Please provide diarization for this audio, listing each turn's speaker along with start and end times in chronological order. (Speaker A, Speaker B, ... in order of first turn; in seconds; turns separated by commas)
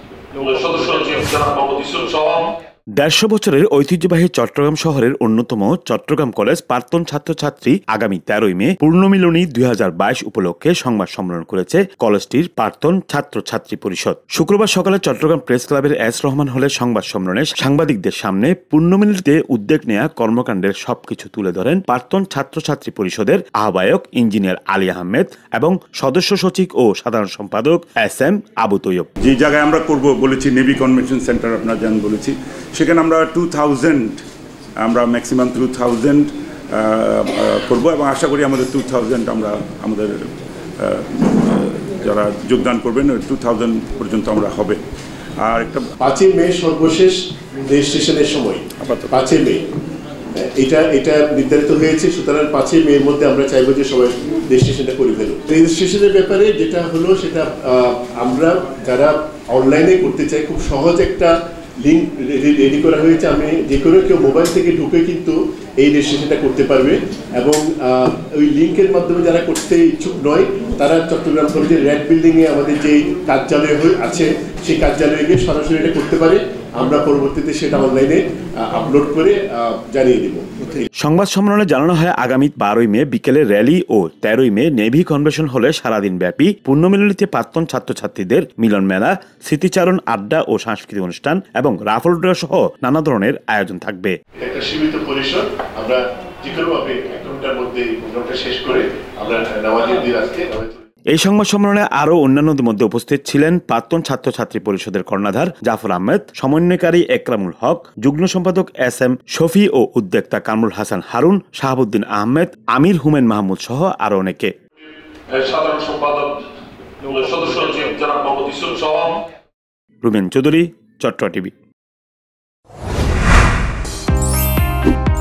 Speaker A: 0.4-2.5, Speaker B: 3.0-29.1, Speaker C: 29.2-34.2, Speaker C: 34.8-40.1, Speaker C: 40.8-44.8, Speaker C: 45.4-45.9, Speaker D: 46.0-47.1, Speaker D: 47.7-49.6, Speaker C: 48.8-49.3, Speaker D: 50.4-80.8, Speaker B: 81.0-94.2, Speaker D: 94.4-100.8, Speaker B: 101.1-114.5, Speaker A: 115.3-116.4, Speaker A: 117.0-119.2, Speaker B: 120.0-121.5